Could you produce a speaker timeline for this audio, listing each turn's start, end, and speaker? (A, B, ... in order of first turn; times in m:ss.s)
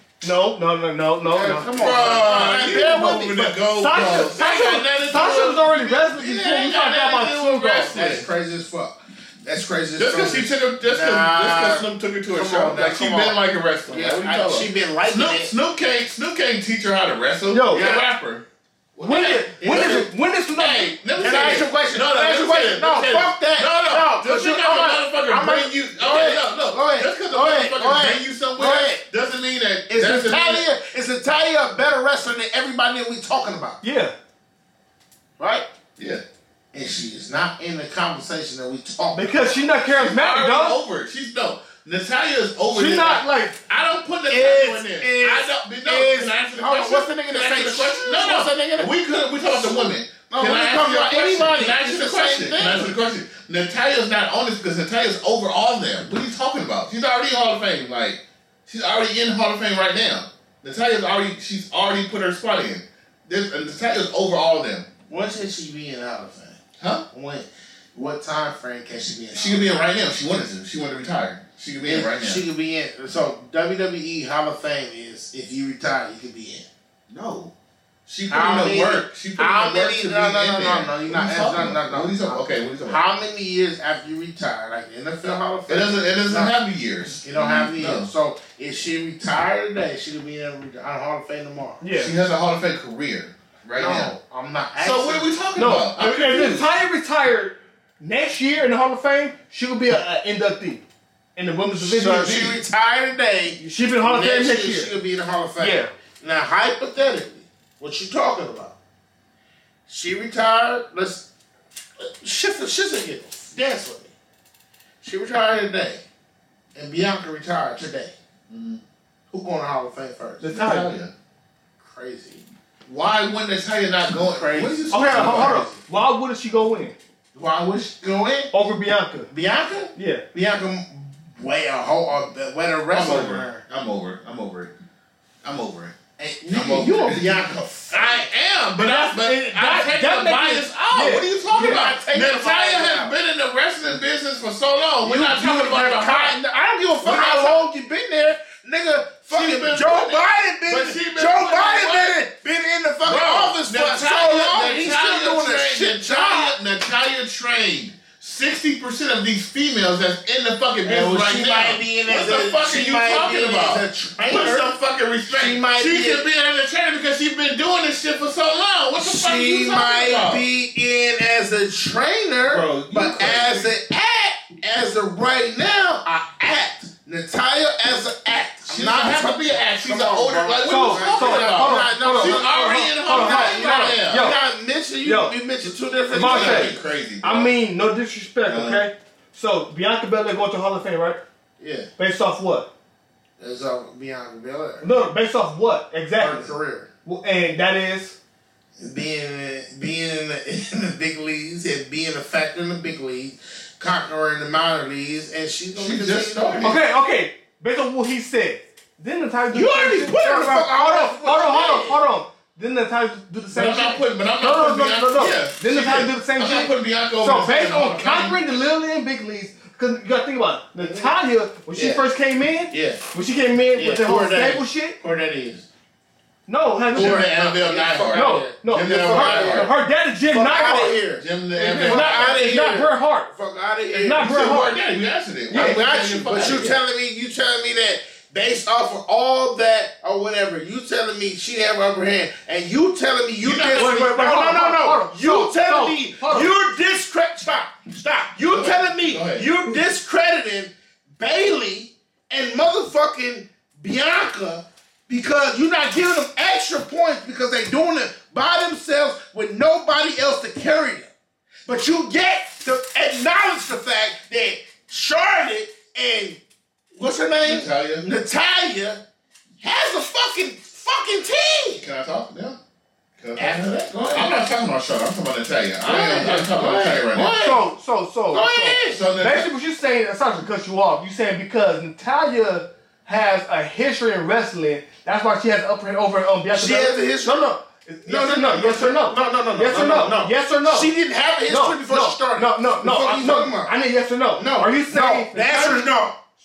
0:00.2-0:02.3 A
0:01.2-0:03.5 B
0:01.8-0:08.3 C
0:03.6-0:08.0 A
0:07.9-0:15.5 B
0:10.0-0:18.4 C
0:17.5-0:17.9 A
0:17.7-0:18.1 B
0:19.0-0:30.7 C
0:19.0-0:21.0 A
0:19.6-0:20.1 B
0:21.1-0:29.0 B
0:29.9-0:33.8 B
0:33.8-0:34.1 A
0:35.4-0:35.7 B
0:36.0-0:36.2 C
0:36.7-0:39.6 B
0:39.2-0:40.8 A
0:39.9-1:04.9 C
0:42.7-0:43.6 A
0:44.3-0:48.9 B
0:49.4-0:52.9 B
1:05.1-1:06.6 B
1:06.8-1:07.0 C
1:07.1-1:09.8 B
1:09.4-1:12.4 C
1:11.9-1:16.7 B
1:17.1-1:17.5 C
1:18.1-1:23.0 C
1:18.3-1:26.5 B
1:25.7-1:28.1 C
1:27.2-1:31.8 B
1:31.8-1:32.1 A
1:31.9-1:34.1 C
1:33.8-1:35.3 B
1:34.8-1:36.7 C
1:35.6-1:40.8 A
1:41.4-1:42.6 A
1:41.8-1:48.8 B
1:43.6-1:44.9 A
1:45.6-1:45.9 A
1:49.9-1:51.3 B
1:52.0-1:54.1 B
1:55.0-1:56.0 B
1:56.8-1:58.2 B
1:58.5-1:58.8 C
1:59.3-2:00.6 B
2:00.4-2:00.9 A
2:00.5-2:01.1 C
2:01.8-2:02.4 B
2:02.9-2:05.6 C
2:04.2-2:05.8 B
2:04.9-2:07.0 A
2:07.3-2:08.5 B
2:08.5-2:09.3 A
2:09.3-2:13.6 B
2:10.0-2:10.2 A
2:12.9-2:14.7 C
2:15.4-2:26.4 C
2:16.4-2:18.3 B
2:18.8-2:21.8 A
2:21.5-2:23.1 B
2:25.0-2:36.6 B
2:27.0-2:27.6 C
2:29.3-2:32.1 C
2:33.0-2:50.4 C
2:40.8-2:44.7 B
2:45.3-2:46.2 B
2:49.0-3:06.8 B
2:52.5-2:53.7 C
2:58.7-3:04.3 C
3:00.7-3:04.4 A
3:05.0-3:05.4 A
3:06.1-3:11.2 A
3:06.2-3:07.5 C
3:08.5-3:08.9 C
3:11.6-3:11.9 B
3:12.0-3:12.7 A
3:13.4-3:14.8 B
3:14.8-3:16.5 A
3:16.2-3:16.9 B
3:17.0-3:18.2 A
3:18.8-3:26.7 B
3:25.8-3:26.8 C
3:26.6-3:45.0 A
3:29.5-3:32.0 B
3:33.5-3:38.4 C
3:40.8-3:41.2 B
3:41.7-3:42.0 B
3:42.7-3:43.0 B
3:43.8-3:45.7 B
3:46.5-3:47.3 A
3:46.9-3:49.7 B
3:46.9-3:49.7 C
3:48.1-3:51.0 A
3:50.3-3:54.3 B
3:51.2-3:52.4 C
3:51.5-3:53.3 A
3:54.0-3:54.8 A
3:54.2-3:56.8 C
3:55.5-3:55.8 A
3:55.5-4:21.1 B
4:03.4-4:03.9 C
4:03.7-4:06.5 A
4:08.5-4:09.5 C
4:21.7-4:26.4 B
4:27.0-4:29.0 B
4:27.4-4:28.0 C
4:29.6-4:31.8 B
4:31.8-4:32.6 C
4:33.2-4:37.4 C
4:33.4-4:34.4 B
4:35.8-4:37.6 B
4:37.2-4:50.9 A
4:38.3-4:39.0 B
4:38.9-4:39.5 C
4:46.5-4:47.5 B
4:48.1-4:53.7 B
4:51.5-4:55.9 A
4:54.4-4:56.2 B